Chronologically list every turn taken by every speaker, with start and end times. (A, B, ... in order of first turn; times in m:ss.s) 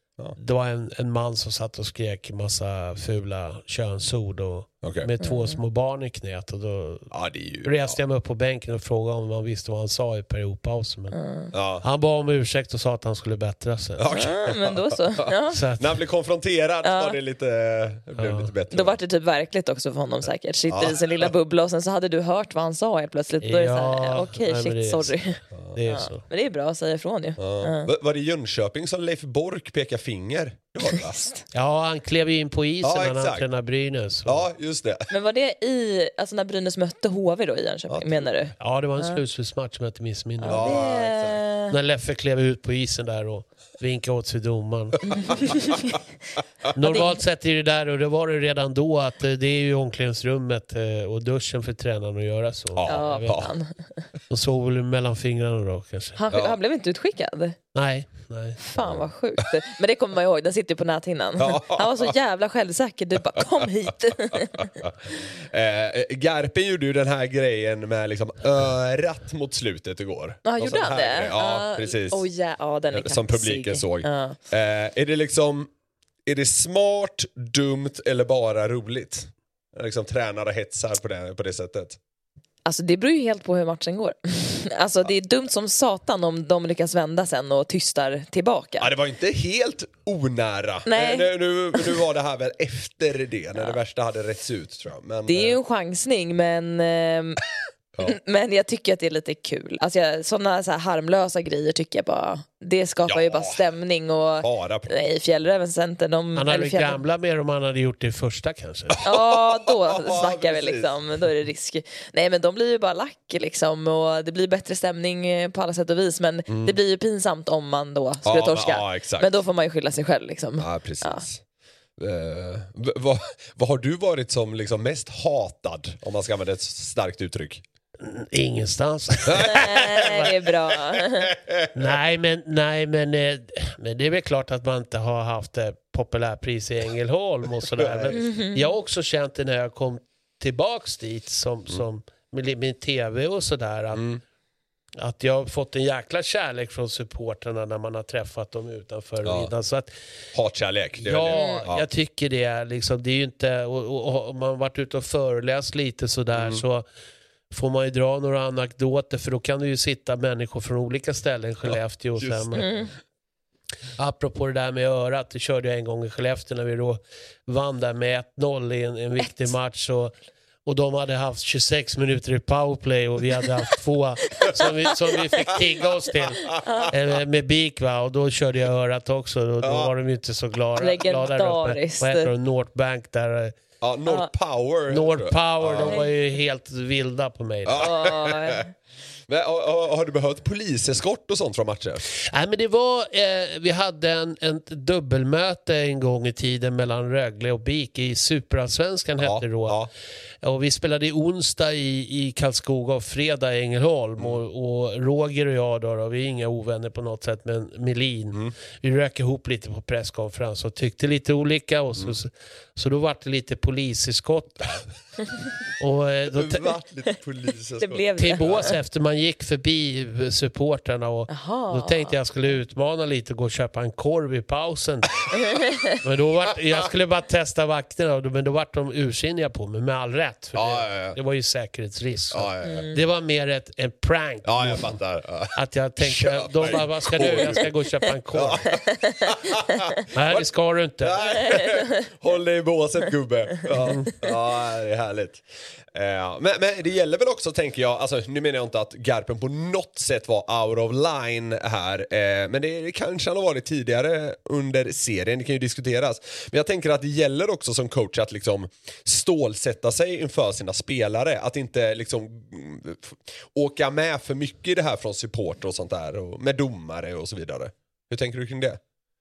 0:00.4-0:07.1 A
0:04.8-0:05.1 B
0:05.2-0:05.6 C
0:07.1-0:08.0 B
0:07.6-0:11.2 A
0:11.1-0:11.5 C
0:11.5-0:11.8 B
0:11.8-0:14.1 A
0:14.0-0:19.0 B
0:14.1-0:15.6 C
0:15.5-0:15.9 A
0:16.8-0:17.2 C
0:18.2-0:18.5 A
0:18.7-0:27.9 C
0:20.7-0:21.3 B
0:23.4-0:26.2 A
0:27.4-0:31.2 B
0:30.8-0:31.4 C
0:31.5-0:34.5 A
0:32.8-0:33.5 B
0:34.2-0:35.1 B
0:35.1-0:39.2 C
0:37.9-0:38.3 B
0:38.6-0:40.9 A
0:40.4-0:41.7 C
0:40.5-0:41.4 B
0:41.7-0:45.4 A
0:45.2-0:46.0 C
0:46.7-0:53.4 A
0:52.7-0:53.5 B
0:52.8-0:54.0 C
0:54.3-0:56.2 A
0:56.2-0:57.6 C
0:57.7-0:58.6 A
0:58.6-1:04.7 C
0:58.7-0:59.1 B
1:01.4-1:02.1 B
1:03.4-1:03.7 B
1:04.3-1:12.2 B
1:10.4-1:14.4 C
1:12.9-1:15.7 B
1:16.2-1:22.0 B
1:22.6-1:28.9 C
1:28.8-1:35.6 B
1:30.9-1:31.9 C
1:35.3-1:37.4 C
1:38.0-1:47.0 C
1:43.1-1:43.6 B
1:44.4-1:44.9 B
1:46.3-1:49.0 A
1:48.9-1:50.9 B
1:49.0-2:01.2 C
1:56.5-1:56.8 B
1:58.2-1:59.4 B
2:00.6-2:01.4 B
2:02.0-2:07.6 B
2:08.0-2:10.1 A
2:09.2-2:10.3 B
2:09.4-2:11.3 C
2:10.9-2:11.7 B
2:11.7-2:24.0 A
2:17.8-2:18.1 B
2:18.1-2:18.7 C
2:23.9-2:24.2 B
2:25.0-2:29.9 A
2:29.2-2:29.5 B
2:30.3-2:31.8 B
2:31.0-2:36.8 A
2:31.4-2:31.6 C
2:36.3-2:36.6 B
2:37.5-2:42.7 A
2:41.6-2:42.8 B
2:42.5-2:42.9 C
2:44.0-3:03.5 A
2:56.5-2:56.9 C
2:59.6-2:59.9 B
3:00.8-3:02.3 C
3:03.8-3:06.0 B
3:04.9-3:07.9 A
3:05.8-3:06.1 C
3:07.6-3:08.6 B
3:07.8-3:08.7 C
3:09.3-3:12.0 B
3:12.1-3:19.8 A
3:19.2-3:19.9 B
3:20.4-3:34.8 A
3:35.8-3:36.7 A
3:36.3-3:38.7 B
3:37.8-3:38.7 C
3:38.2-3:45.3 A
3:41.3-3:42.2 C
3:45.5-3:46.0 C
3:46.0-3:54.9 A
3:50.5-3:51.2 B
3:52.3-3:52.9 B
3:52.6-3:53.0 C
3:54.4-3:57.7 B
3:55.5-3:58.7 A
3:58.3-4:28.8 B
3:58.7-3:59.3 C
4:00.1-4:01.2 A
4:01.2-4:02.0 C